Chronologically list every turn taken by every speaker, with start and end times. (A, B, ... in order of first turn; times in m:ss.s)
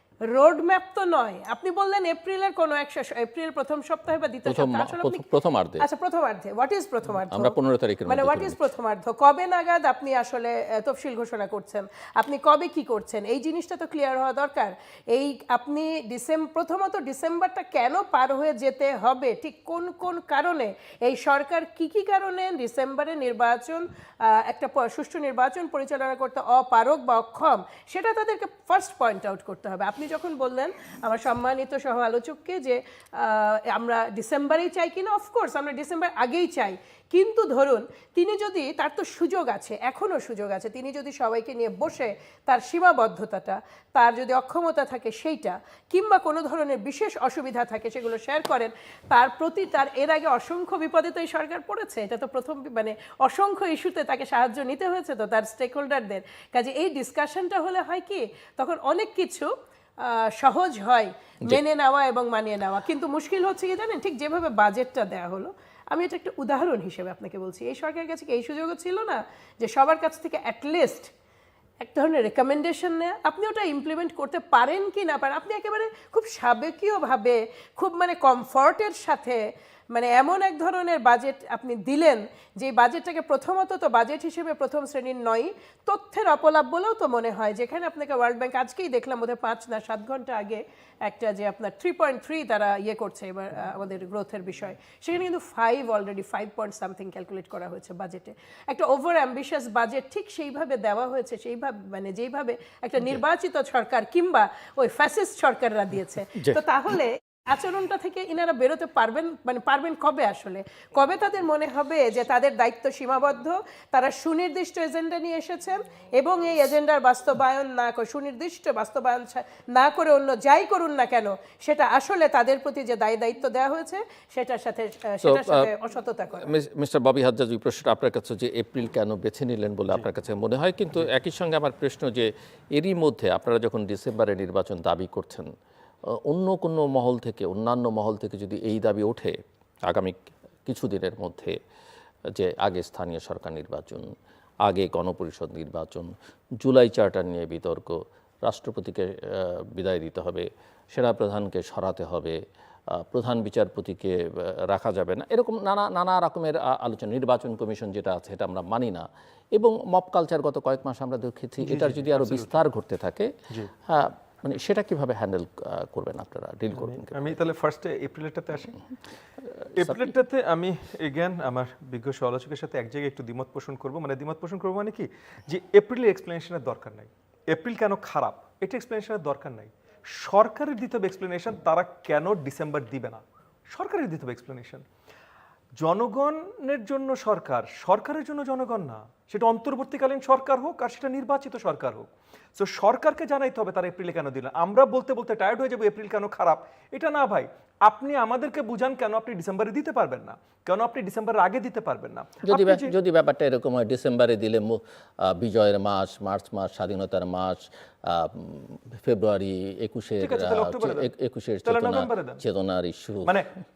0:00.3-0:05.3 A
0:04.5-0:05.8 B
0:05.8-1:11.1 A
0:07.1-0:08.6 B
1:11.8-2:06.5 A
2:05.2-2:05.7 B
2:06.4-2:15.5 B
2:16.3-2:19.4 B
2:19.9-2:21.6 B
2:22.4-2:24.1 B
2:24.6-2:32.4 B
2:33.0-2:43.3 B
2:41.6-2:42.5 C
2:43.9-2:47.4 B
2:46.9-2:48.8 C
2:49.8-3:04.8 C
3:05.8-3:22.9 C
3:22.4-3:33.4 B
3:30.2-3:31.1 C
3:31.6-3:32.4 C
3:33.3-3:33.5 C